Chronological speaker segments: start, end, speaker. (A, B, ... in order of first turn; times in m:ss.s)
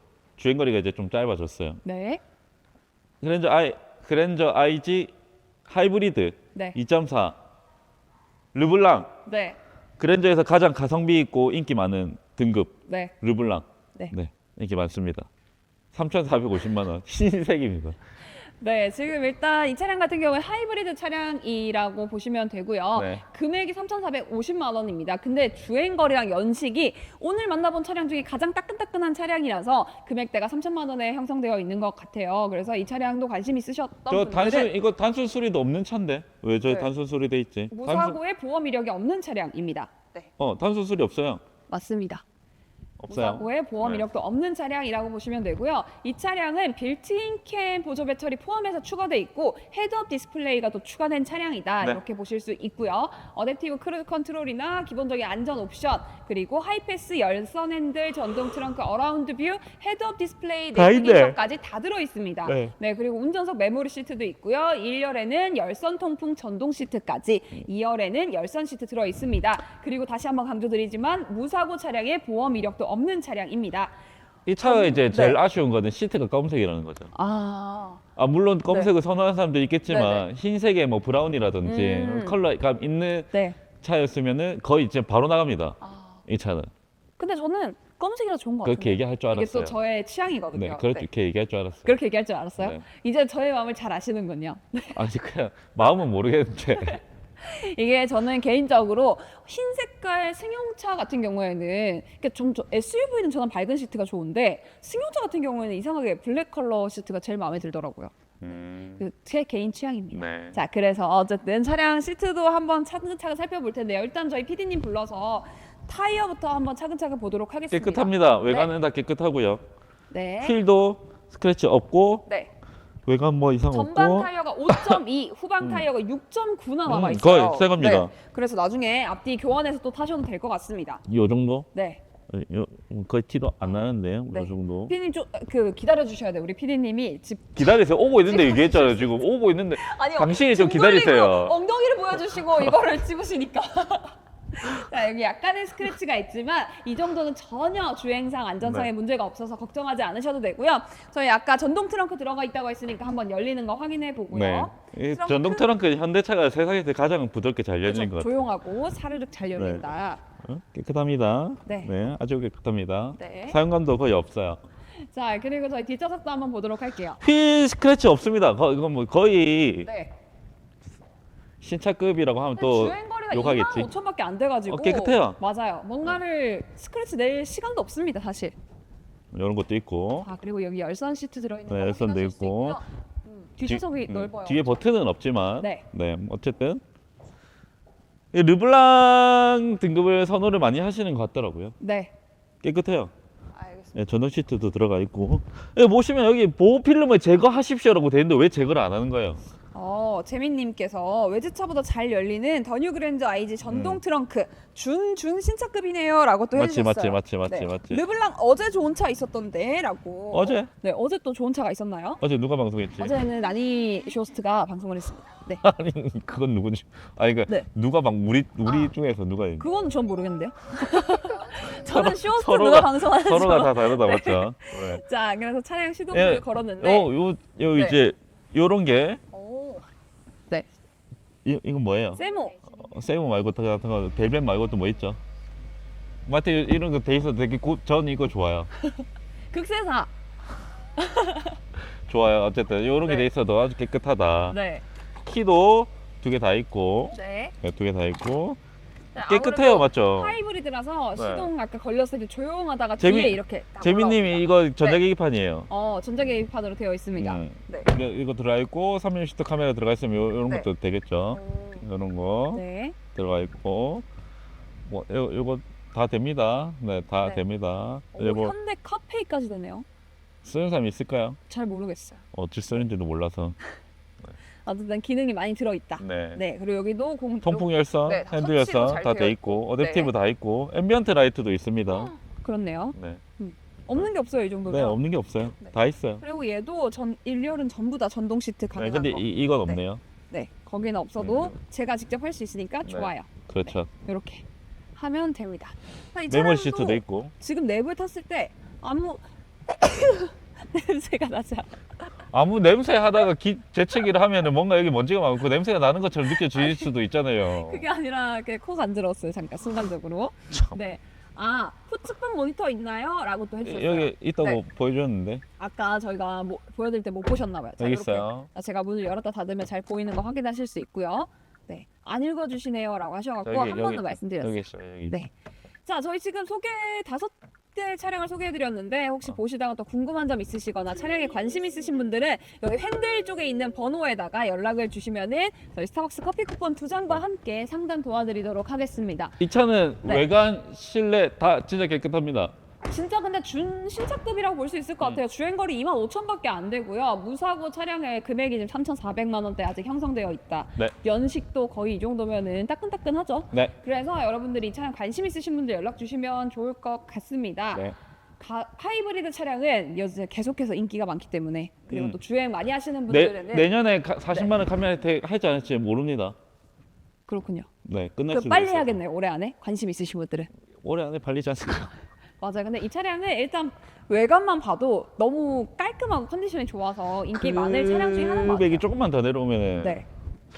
0:00.4-0:01.8 A
0:01.8-0:02.2 B
0:03.2-0:05.1 A
0:05.7-0:07.4 A
0:08.5-0:09.1 A
0:09.3-0:09.6 B
0:10.0-0:15.3 A
0:12.9-0:13.1 B
0:15.9-0:18.0 A
0:18.6-0:34.7 B
0:22.9-0:23.2 A
0:34.1-0:38.2 A
0:37.7-0:40.3 B
0:40.4-0:41.4 A
0:41.7-0:42.2 B
0:43.0-0:44.0 A
0:43.1-1:14.0 B
1:00.8-1:01.4 A
1:02.4-1:02.7 A
1:14.4-1:17.1 A
1:14.6-1:15.4 B
1:17.1-1:18.0 B
1:18.2-1:26.7 A
1:18.7-1:18.9 B
1:19.9-1:20.2 B
1:21.6-1:22.4 B
1:23.3-1:23.6 B
1:25.8-1:26.2 B
1:27.2-1:31.0 B
1:28.6-1:29.8 A
1:30.5-1:32.0 A
1:31.8-1:35.0 B
1:34.9-1:37.0 A
1:37.4-1:48.1 B
1:48.4-1:49.0 A
1:49.0-1:58.7 B
1:50.1-1:50.6 A
1:57.7-1:59.6 A
2:00.1-2:00.6 B
2:00.4-2:02.3 A
2:03.0-2:05.0 A
2:03.7-2:11.0 B
2:05.6-2:05.9 A
2:06.9-2:08.1 A
2:11.1-2:11.7 A
2:11.7-2:12.0 B
2:12.3-2:14.9 A
2:14.3-2:17.6 B
2:17.6-2:21.6 A
2:18.2-2:35.7 B
2:28.6-2:28.9 A
2:34.3-2:38.4 A
2:37.9-2:40.2 B
2:39.6-2:39.9 A
2:40.4-2:44.6 A
2:41.7-2:41.9 B
2:43.2-2:43.6 B
2:45.0-2:47.2 B
2:47.2-2:49.9 A
2:49.8-2:50.1 B
2:51.6-2:53.9 A
2:52.6-2:58.5 B
2:54.7-2:55.4 A
2:59.3-3:00.3 A
3:00.2-3:04.8 B
3:01.7-3:02.8 A
3:03.6-3:06.8 A
3:08.3-3:11.8 A
3:11.8-3:12.1 B
3:12.6-3:13.1 A
3:13.6-3:14.0 B
3:14.0-3:19.4 A
3:19.7-3:32.2 B
3:23.7-3:24.0 A
3:26.6-3:28.0 A
3:30.3-3:30.7 A
3:32.2-3:33.2 A
3:33.0-3:35.6 B
3:35.6-3:39.7 A
3:38.6-3:38.9 B
3:39.6-3:47.1 B
3:41.2-3:45.0 A
3:46.1-3:49.2 A
3:49.3-3:49.9 B
3:51.4-3:55.2 A
3:52.2-3:52.6 B
3:56.3-3:58.7 A
3:58.8-4:00.1 B
4:01.0-4:01.6 B
4:02.1-4:04.6 A
4:04.5-4:04.8 B
4:05.2-4:08.6 A
4:07.1-4:07.5 B
4:09.1-4:15.0 B
4:09.2-4:10.4 A
4:11.2-4:11.5 A
4:13.0-4:15.7 A
4:15.7-4:17.9 B
4:17.2-4:22.6 A
4:21.3-4:21.8 B
4:22.5-4:23.0 B
4:23.1-4:24.0 A
4:24.8-4:28.5 A
4:28.1-4:29.8 B
4:30.4-4:31.4 A
4:31.5-4:32.2 B
4:32.3-4:33.6 A
4:34.6-4:40.1 B
4:36.0-4:36.4 A
4:37.4-4:42.1 A
4:41.9-4:45.0 B
4:42.9-4:43.2 A
4:44.7-4:46.2 A
4:45.6-4:54.4 B
4:48.8-4:50.0 A
4:51.2-4:51.5 A
4:52.8-4:53.9 A
4:55.0-5:01.7 B
4:56.3-4:57.3 A
5:02.3-5:07.9 A
5:06.3-5:06.9 B
5:07.4-5:14.6 B
5:10.5-5:10.8 A
5:13.6-5:15.4 A
5:15.6-5:25.3 B
5:17.8-5:18.5 A
5:23.4-5:25.2 A
5:25.8-5:39.4 B
5:39.4-5:42.5 A
5:42.9-6:03.7 B
6:01.9-6:02.2 A
6:03.1-6:06.3 A
6:07.3-6:07.7 B
6:07.8-6:09.0 A
6:08.3-6:10.5 B
6:10.8-6:12.0 A
6:12.4-6:18.8 B
6:17.3-6:20.0 A
6:19.8-6:20.1 B